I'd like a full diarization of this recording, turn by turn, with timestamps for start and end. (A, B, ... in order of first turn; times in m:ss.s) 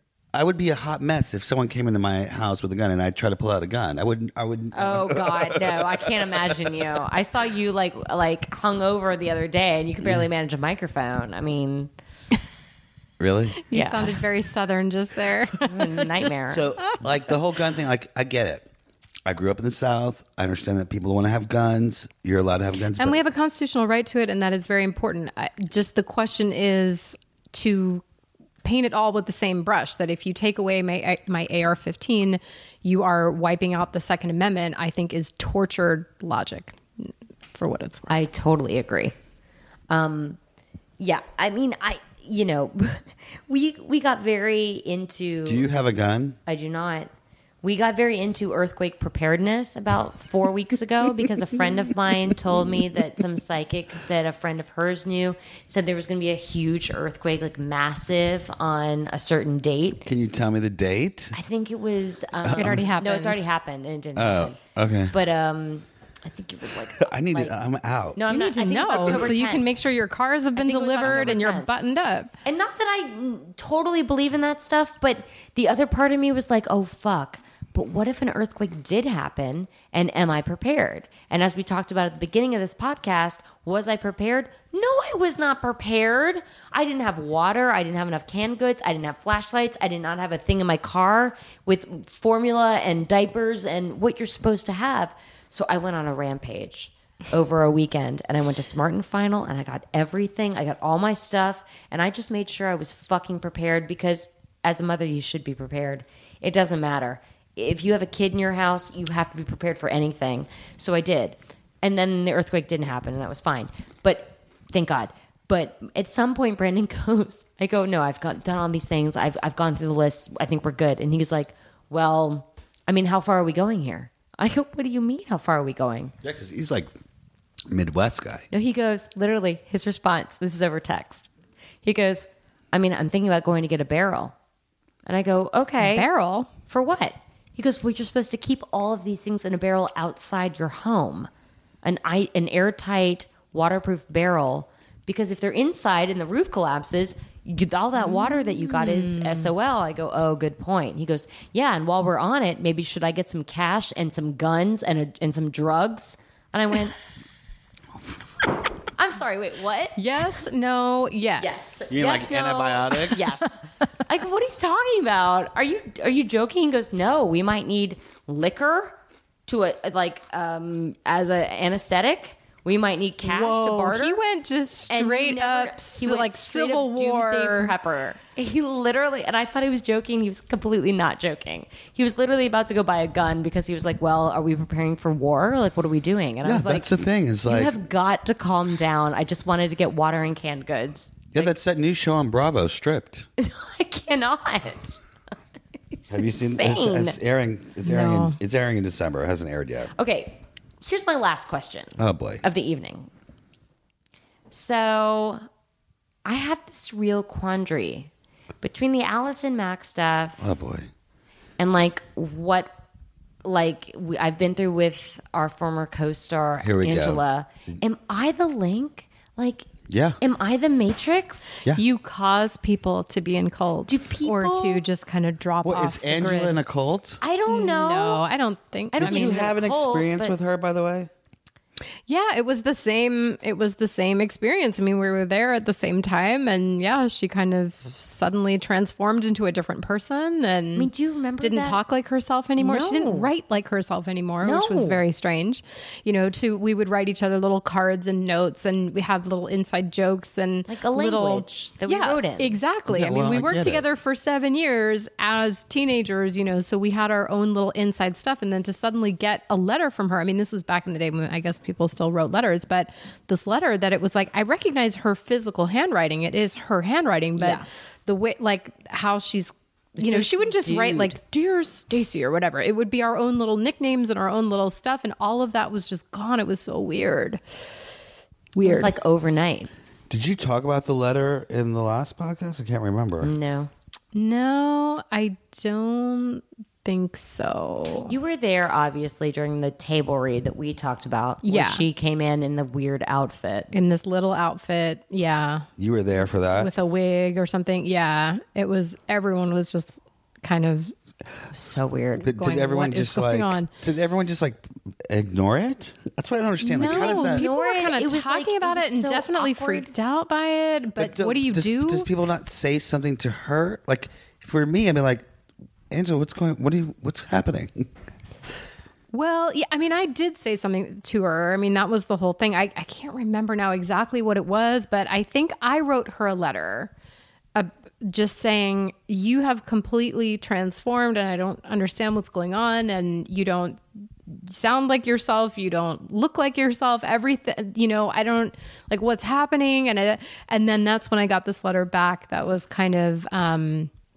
0:00.3-0:06.7 A
0:04.7-0:11.9 B
0:13.2-0:14.1 A
0:13.6-0:16.3 C
0:13.7-0:14.1 B
0:15.6-0:16.7 B
0:16.5-0:18.7 A
0:19.2-0:23.2 A
0:23.0-0:28.0 C
0:28.6-0:38.1 C
0:38.1-0:39.1 B
0:39.9-0:40.4 B
0:41.0-0:45.7 B
0:45.4-0:46.4 A
0:46.4-0:47.1 B
0:47.6-1:00.0 B
1:00.0-1:01.3 A
1:01.3-1:04.6 B
1:02.4-1:02.8 A
1:02.5-1:03.4 C
1:04.2-1:05.1 A
1:05.1-1:07.5 B
1:07.0-1:08.2 A
1:08.1-1:09.6 B
1:08.3-1:12.3 C
1:09.0-1:09.3 A
1:10.5-1:11.7 B
1:11.0-1:11.3 A
1:12.4-2:06.1 B
2:06.2-2:06.9 A
2:07.7-2:08.5 A
2:08.5-2:11.3 B
2:11.8-2:14.3 B
2:15.0-2:16.0 B
2:15.8-2:16.5 C
2:16.7-2:21.3 B
2:21.8-2:37.0 B
2:28.0-2:29.5 C
2:39.0-2:40.0 B
2:40.0-2:41.6 C
2:41.4-2:54.2 B
2:41.9-2:43.3 A
2:43.2-2:43.5 C
2:53.2-2:57.7 C
2:54.9-3:11.5 B
3:06.4-3:07.8 A
3:11.3-3:13.3 A
3:13.4-3:15.0 B
3:15.9-3:17.2 B
3:16.1-3:19.9 A
3:17.8-3:18.4 C
3:19.9-3:23.1 B
3:22.0-3:22.4 A
3:24.5-3:25.4 B
3:26.2-3:28.1 B
3:28.6-3:30.5 B
3:30.4-3:30.9 A
3:31.6-3:32.7 B
3:33.4-3:39.6 B
3:36.6-3:37.2 A
3:39.9-3:40.2 A
3:40.2-3:41.5 B
3:41.7-3:46.6 C
3:43.9-3:44.8 B
3:45.6-3:47.2 A
3:47.2-3:48.2 B
3:47.5-3:49.5 C
3:48.9-3:50.4 B
3:49.0-3:51.1 A
3:52.1-4:37.4 C
4:00.7-4:01.8 B
4:02.6-4:03.3 B
4:04.4-4:05.0 B
4:10.7-4:12.5 B
4:12.9-4:13.8 A
4:27.4-4:27.7 B
4:30.0-4:31.2 B
4:38.5-4:38.9 C
4:38.6-4:39.7 B
4:40.1-4:43.3 A
4:43.2-4:43.7 B
4:44.1-4:48.1 C
4:48.0-4:53.7 B
4:51.4-4:51.8 C
4:53.7-4:55.7 C
4:55.8-4:56.7 A
4:56.5-4:59.9 C
5:00.4-5:00.9 C
5:01.5-5:02.3 B
5:02.2-5:07.5 A
5:02.3-5:03.7 C
5:06.6-5:12.1 C
5:06.8-5:09.9 B
5:11.0-5:15.2 A
5:15.9-5:17.9 A
5:19.1-5:26.9 C
5:27.5-5:43.9 C